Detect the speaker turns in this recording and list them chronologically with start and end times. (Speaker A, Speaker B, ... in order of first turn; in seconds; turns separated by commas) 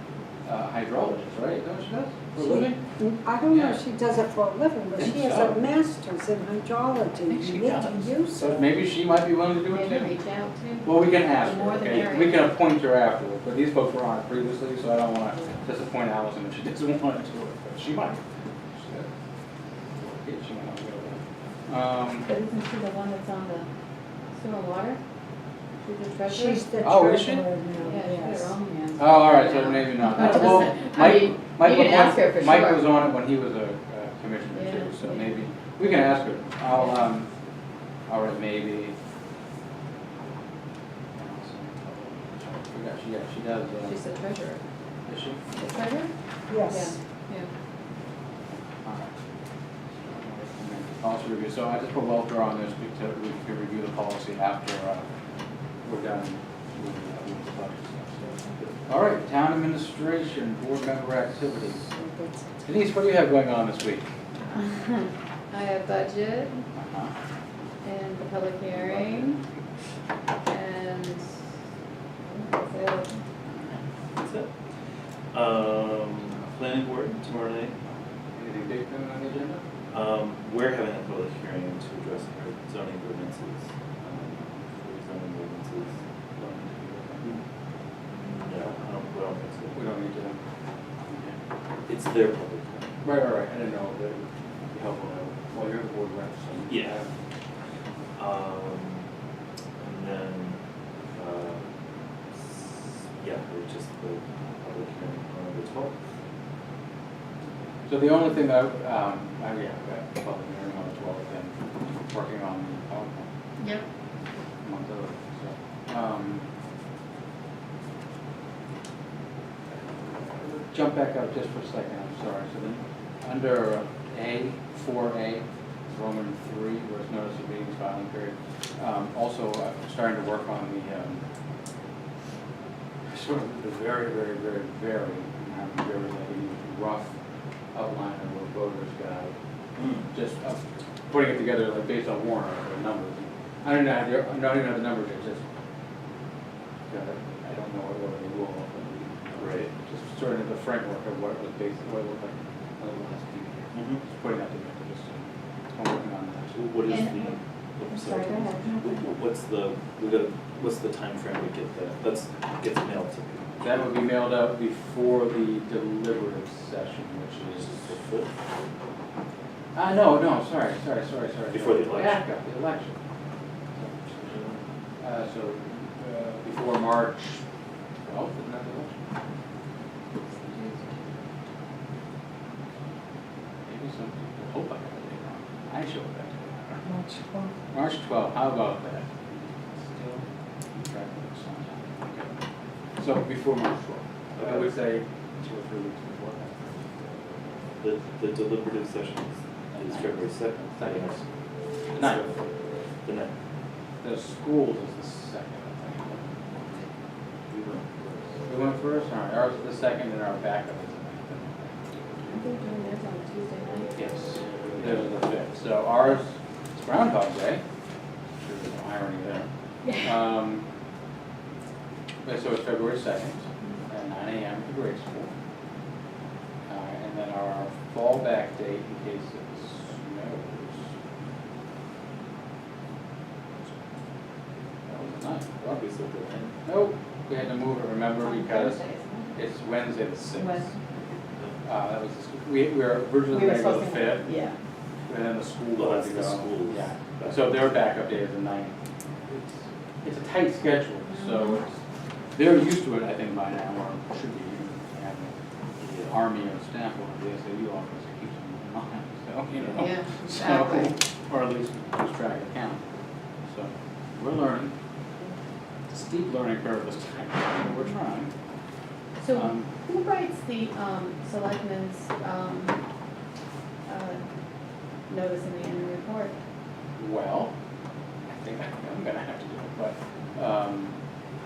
Speaker A: 0.5-2.8, Speaker B: 2.4-8.8, Speaker A: 3.5-3.8, Speaker A: 5.0-5.6, Speaker A: 7.3-10.1, Speaker C: 9.7-12.5, Speaker A: 10.8-18.2, Speaker A: 18.8-19.1, Speaker A: 20.0-22.3, Speaker C: 22.2-23.7, Speaker C: 24.4-25.0, Speaker C: 25.8-26.6, Speaker B: 26.3-28.5, Speaker A: 26.8-27.5, Speaker C: 27.8-32.9, Speaker A: 29.0-37.3, Speaker C: 34.5-35.4, Speaker A: 38.1-39.0, Speaker A: 41.2-44.0, Speaker C: 43.9-44.6, Speaker A: 45.1-45.4, Speaker C: 45.5-46.1, Speaker B: 46.5-47.0, Speaker C: 46.7-47.5, Speaker A: 48.8-49.1, Speaker A: 50.0-55.0, Speaker A: 55.8-58.2, Speaker A: 58.9-61.9, Speaker B: 61.9-62.5, Speaker A: 62.6-64.0, Speaker C: 64.5-66.7, Speaker A: 66.7-67.1, Speaker C: 67.8-69.4, Speaker A: 68.7-69.3, Speaker C: 70.5-71.3, Speaker C: 72.2-73.2, Speaker A: 73.5-73.8, Speaker D: 74.2-74.5, Speaker D: 75.3-77.8, Speaker A: 78.3-79.6, Speaker D: 79.9-86.0, Speaker A: 86.4-87.3, Speaker D: 88.2-89.8, Speaker A: 89.7-90.4, Speaker A: 91.1-91.3, Speaker D: 91.9-93.0, Speaker A: 93.0-97.1, Speaker D: 96.7-97.0, Speaker D: 98.2-99.1, Speaker D: 99.8-100.6, Speaker D: 101.1-101.7, Speaker D: 103.2-106.0, Speaker A: 107.9-111.5, Speaker A: 112.1-113.3, Speaker C: 113.6-113.8, Speaker A: 114.6-116.5, Speaker A: 120.2-131.2, Speaker A: 133.1-137.1, Speaker A: 137.7-139.3, Speaker D: 139.8-140.1, Speaker A: 140.1-145.4, Speaker A: 146.9-156.7, Speaker D: 149.4-149.7, Speaker D: 153.7-154.0, Speaker D: 156.5-164.0, Speaker C: 156.9-157.4, Speaker C: 157.9-159.0, Speaker A: 163.6-167.9, Speaker D: 167.5-168.3, Speaker A: 169.8-173.0, Speaker D: 171.5-172.2, Speaker A: 173.8-174.3, Speaker D: 174.2-174.6, Speaker A: 175.0-177.4, Speaker A: 178.0-179.0, Speaker A: 180.5-180.8, Speaker A: 183.7-186.8, Speaker B: 186.8-187.6, Speaker A: 187.7-192.3, Speaker A: 193.0-196.8, Speaker D: 194.4-194.7, Speaker D: 197.8-201.2, Speaker A: 199.7-201.2, Speaker A: 201.9-202.3, Speaker D: 201.9-202.4, Speaker D: 203.1-203.3, Speaker A: 204.0-206.3, Speaker D: 207.5-208.3, Speaker A: 208.5-211.8, Speaker C: 212.2-214.0, Speaker A: 213.9-217.6, Speaker D: 214.6-215.1, Speaker A: 218.4-219.5, Speaker A: 220.0-220.6, Speaker A: 222.2-225.3, Speaker A: 226.7-230.9, Speaker A: 234.9-235.8, Speaker D: 235.6-236.6, Speaker A: 236.6-238.8, Speaker C: 238.2-239.4, Speaker A: 239.3-240.8, Speaker C: 240.4-240.8, Speaker A: 241.6-244.3, Speaker C: 243.3-244.6, Speaker A: 245.1-248.7, Speaker D: 245.8-247.5, Speaker A: 249.3-251.7, Speaker C: 251.1-251.6, Speaker A: 252.3-255.3, Speaker D: 255.8-256.2, Speaker A: 256.0-262.8, Speaker C: 259.7-260.9, Speaker A: 263.5-264.7, Speaker A: 265.9-268.3, Speaker C: 269.2-272.8, Speaker A: 269.3-269.7, Speaker C: 273.9-274.2, Speaker C: 275.1-276.4, Speaker A: 277.0-277.5, Speaker A: 278.3-281.0